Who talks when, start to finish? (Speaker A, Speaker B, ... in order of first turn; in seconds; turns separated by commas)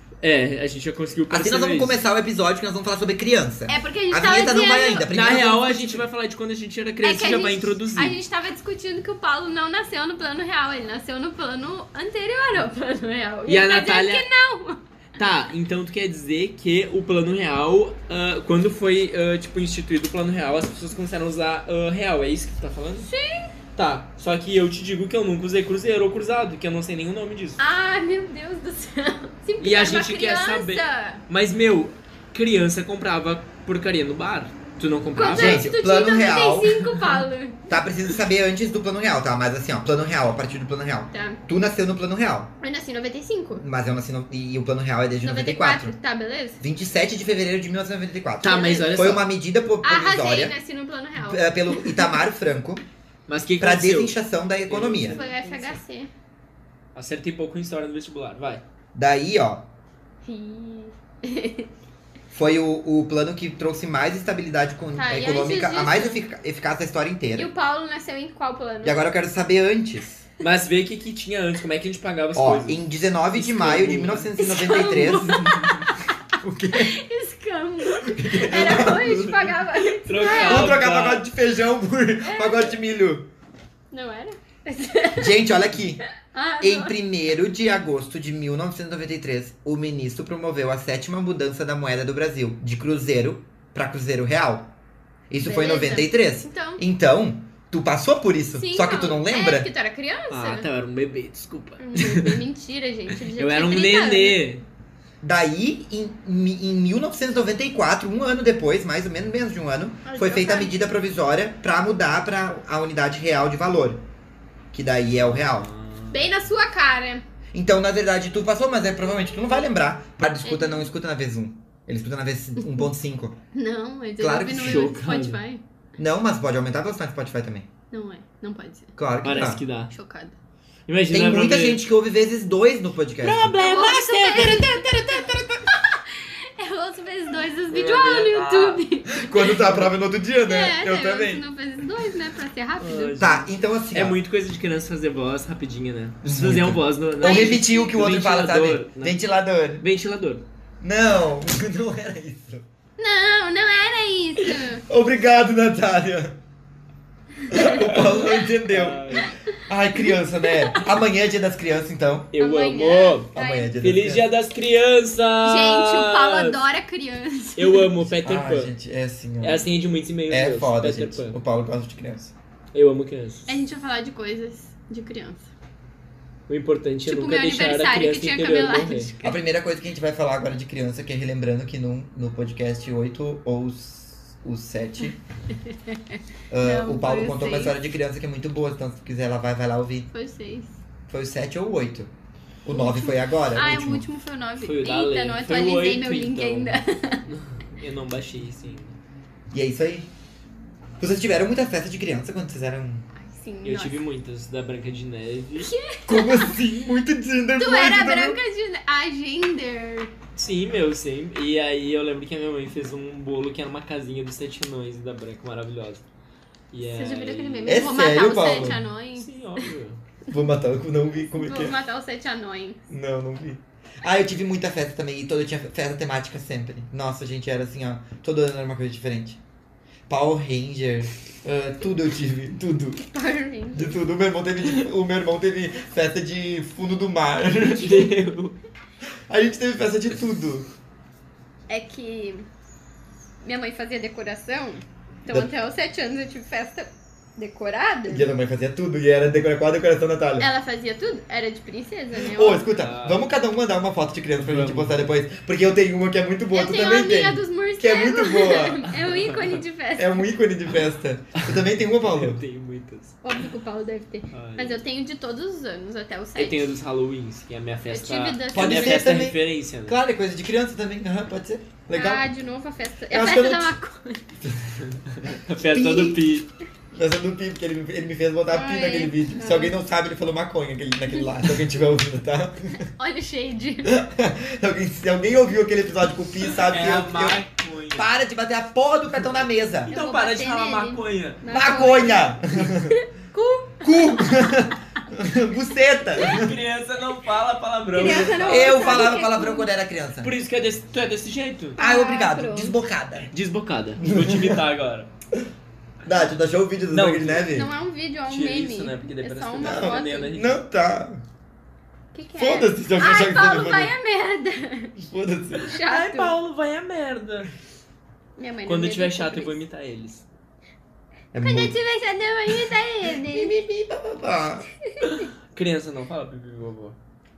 Speaker A: 0.2-2.0, Speaker B: 1.3-6.0, Speaker C: 3.7-5.1, Speaker A: 5.1-8.2, Speaker C: 7.0-14.8, Speaker A: 13.5-14.3, Speaker A: 15.2-23.1, Speaker C: 23.1-23.5, Speaker A: 23.7-27.6, Speaker C: 27.6-31.2, Speaker A: 29.6-35.6, Speaker C: 35.1-37.7, Speaker B: 35.3-37.0, Speaker B: 37.7-42.5, Speaker C: 41.1-41.4, Speaker C: 42.6-43.6, Speaker B: 43.6-46.0, Speaker C: 45.2-46.6, Speaker B: 46.6-50.5, Speaker A: 48.4-49.3, Speaker C: 48.4-49.0, Speaker C: 49.8-52.2, Speaker B: 51.1-52.8, Speaker A: 53.3-55.8, Speaker B: 53.6-55.2, Speaker C: 55.1-56.1, Speaker A: 56.9-58.6, Speaker B: 58.9-59.7, Speaker C: 60.2-61.7, Speaker B: 62.3-67.5, Speaker C: 65.0-66.2, Speaker C: 67.3-69.0, Speaker B: 68.8-70.2, Speaker A: 70.4-74.4, Speaker B: 72.3-75.4, Speaker C: 74.4-76.0, Speaker A: 75.0-75.9, Speaker B: 76.4-77.0, Speaker C: 76.7-80.7, Speaker B: 78.0-79.2, Speaker A: 78.3-81.2, Speaker B: 80.2-83.3, Speaker C: 82.2-82.8, Speaker C: 83.9-85.4, Speaker B: 85.2-86.0, Speaker C: 86.2-86.9, Speaker B: 86.6-94.7, Speaker B: 95.3-99.7, Speaker C: 95.4-96.8, Speaker C: 98.5-100.7, Speaker A: 100.3-102.4, Speaker C: 101.8-104.5, Speaker A: 103.3-104.6, Speaker B: 105.2-114.0, Speaker C: 110.0-110.8, Speaker B: 114.7-115.7, Speaker A: 115.2-116.4, Speaker C: 116.1-117.2, Speaker B: 117.5-123.4, Speaker C: 120.4-120.9, Speaker C: 123.5-125.6, Speaker B: 124.2-124.9, Speaker A: 124.5-125.4, Speaker B: 126.0-127.7, Speaker C: 127.9-128.9, Speaker B: 128.9-129.6, Speaker A: 129.2-129.9, Speaker C: 129.9-130.3, Speaker A: 130.9-131.8, Speaker B: 131.1-133.6, Speaker A: 133.2-135.6, Speaker C: 133.6-139.7, Speaker A: 137.7-138.8, Speaker B: 139.1-141.4, Speaker C: 140.4-143.2, Speaker A: 142.8-149.2, Speaker B: 143.2-144.2, Speaker B: 146.2-149.8, Speaker C: 147.2-147.9, Speaker A: 149.8-150.4, Speaker B: 150.8-152.6, Speaker C: 153.0-154.8, Speaker B: 154.9-156.4, Speaker C: 157.4-158.5, Speaker B: 157.5-162.3, Speaker A: 157.8-159.3, Speaker C: 160.1-160.8, Speaker A: 162.3-166.6, Speaker C: 162.4-163.7, Speaker B: 163.3-164.2, Speaker C: 165.4-167.9, Speaker A: 167.6-168.7, Speaker B: 168.2-169.6, Speaker A: 169.4-171.3, Speaker B: 170.3-172.3, Speaker A: 172.7-173.5, Speaker C: 173.5-175.5, Speaker A: 176.5-179.1, Speaker C: 177.1-179.4, Speaker B: 179.2-185.2, Speaker C: 185.5-187.7, Speaker B: 186.5-190.1, Speaker C: 190.1-190.8, Speaker B: 191.1-192.1, Speaker B: 192.6-194.0, Speaker C: 192.7-197.2, Speaker A: 194.6-198.9, Speaker B: 199.5-200.1, Speaker B: 201.0-203.1, Speaker C: 203.2-203.9, Speaker A: 203.6-205.7, Speaker C: 205.6-206.6, Speaker B: 206.1-208.4, Speaker C: 207.6-210.1, Speaker A: 210.3-216.0, Speaker A: 216.7-217.8, Speaker C: 216.8-219.7, Speaker B: 217.7-218.8, Speaker A: 219.2-220.0, Speaker B: 220.3-221.8, Speaker C: 221.3-222.8, Speaker B: 222.9-229.4, Speaker B: 230.1-233.1, Speaker C: 233.0-234.0, Speaker B: 233.7-238.1, Speaker A: 237.7-238.6, Speaker B: 239.3-240.7, Speaker C: 241.7-242.5, Speaker C: 243.4-248.3, Speaker B: 248.1-250.5, Speaker C: 250.4-252.7, Speaker B: 252.2-258.9, Speaker A: 252.7-253.2, Speaker A: 254.4-255.1, Speaker C: 256.5-260.3, Speaker A: 258.9-259.6, Speaker B: 260.0-262.4, Speaker A: 261.3-263.2, Speaker C: 263.2-266.6, Speaker A: 264.3-264.8, Speaker A: 266.4-270.0, Speaker C: 267.9-269.0, Speaker B: 268.5-272.3, Speaker C: 271.9-274.3, Speaker B: 273.1-273.8, Speaker A: 274.8-276.5, Speaker B: 275.7-276.2, Speaker B: 276.9-282.8, Speaker C: 278.5-279.7, Speaker C: 282.9-283.9, Speaker B: 283.8-287.4, Speaker A: 286.6-288.1, Speaker B: 287.9-289.9, Speaker A: 289.9-291.4, Speaker C: 289.9-294.4, Speaker B: 291.5-293.0, Speaker B: 293.8-296.6, Speaker A: 296.2-299.1, Speaker C: 297.9-299.7, Speaker B: 298.0-300.3, Speaker A: 300.2-301.8, Speaker C: 301.8-302.8, Speaker B: 301.8-303.3, Speaker A: 303.3-305.1, Speaker B: 304.0-304.6, Speaker B: 306.0-307.7, Speaker A: 306.9-307.5, Speaker C: 307.5-310.3, Speaker A: 308.3-310.6, Speaker B: 309.6-311.2, Speaker C: 312.1-315.1, Speaker B: 312.4-313.9, Speaker B: 315.0-315.7, Speaker C: 315.6-316.3, Speaker A: 315.7-317.5, Speaker C: 318.4-319.6, Speaker A: 318.7-320.3, Speaker B: 321.3-321.8, Speaker C: 321.4-323.5, Speaker B: 322.5-324.7, Speaker C: 324.8-325.3, Speaker A: 325.0-326.9